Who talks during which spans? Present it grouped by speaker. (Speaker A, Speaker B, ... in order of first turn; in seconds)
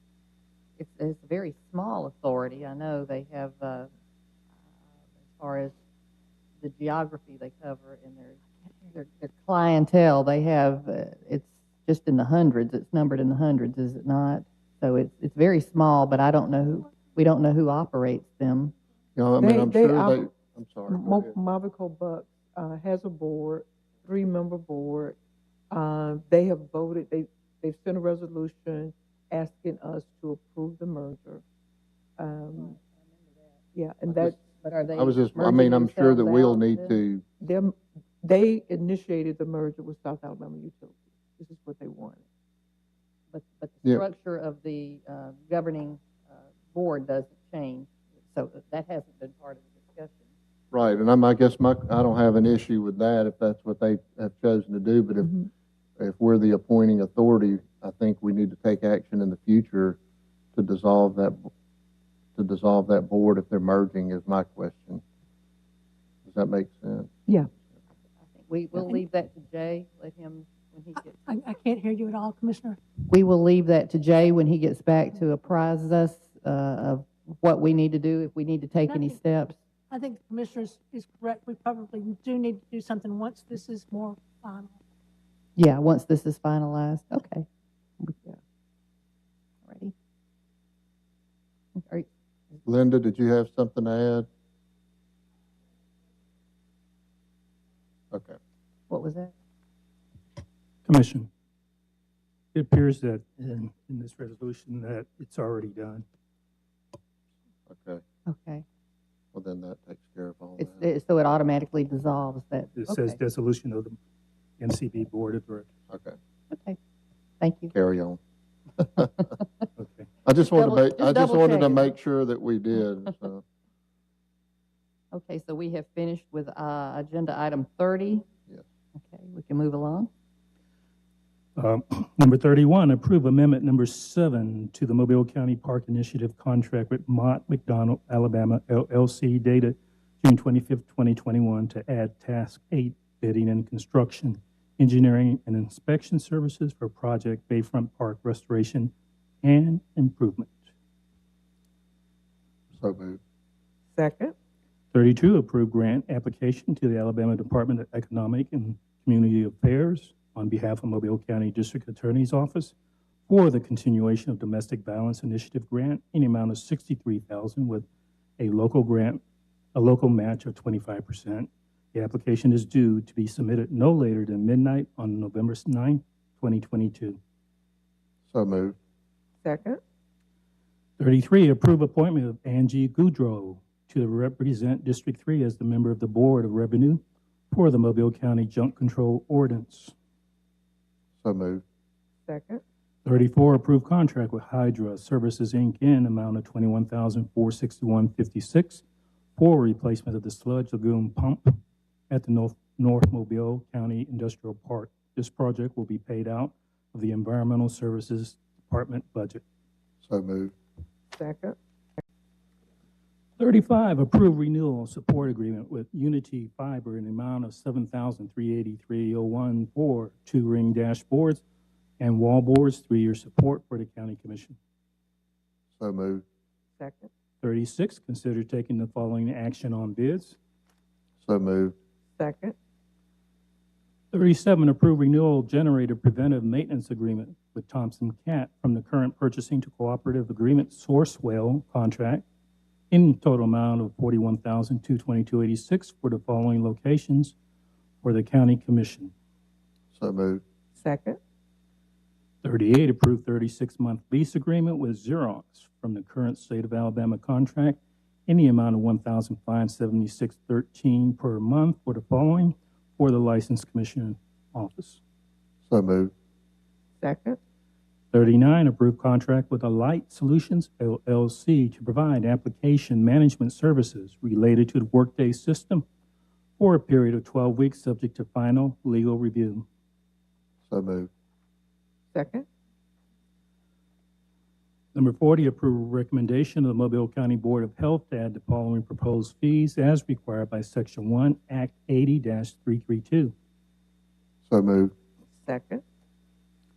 Speaker A: 0.8-3.9, 5.4-5.7, 6.6-18.7, 34.4-37.0, 43.3-46.1, 46.7-50.3, 68.3-71.2, 73.1-79.6, 85.6-87.5, 89.7-89.9, 91.8-92.1, 98.9-99.3, 108.3-108.7, 110.6-113.2, 116.5-116.8, 117.4-117.7, 120.5-121.9, 125.1-128.2, 129.0-130.1
Speaker B: 19.2-21.3, 35.0-37.2, 50.7-55.4, 56.0-60.0, 60.5-61.5, 62.4-65.0, 66.2-67.1, 92.7-94.3, 98.1-98.4, 107.7-108.0, 109.3-110.8, 115.9-116.2, 117.7-118.2, 118.8-119.1, 120.2-123.4, 152.7-153.2, 178.3-178.8, 191.2-191.6, 210.0-210.5, 225.8-226.2, 231.2-231.8, 249.9-250.4, 265.7-266.1, 280.7-281.1, 294.5-294.9
Speaker C: 19.4-20.3, 20.9-25.2, 25.7-31.4, 32.2-32.7, 33.8-34.4, 37.4-42.2, 153.9-154.3, 179.4-179.8, 192.3-192.6, 211.2-211.6, 226.8-227.1, 232.2-232.6, 250.8-251.2, 267.0-267.4, 282.1-282.4, 295.4-295.8
Speaker D: 68.8-69.0, 71.3-72.8, 78.9-79.2, 79.9-84.8
Speaker E: 100.9-101.3, 102.5-106.0, 112.8-114.0, 114.6-115.7, 119.8-120.1, 131.6-148.9, 149.4-150.7, 154.9-162.7, 163.3-167.9, 168.4-169.2, 169.8-177.2, 181.0-189.9, 193.1-198.8, 199.4-201.5, 202.1-209.4, 213.4-221.4, 222.0-224.6, 227.4-230.4, 234.1-242.2, 242.9-247.3, 248.0-249.1, 252.4-265.0, 268.1-275.9, 276.6-279.6, 284.9-293.3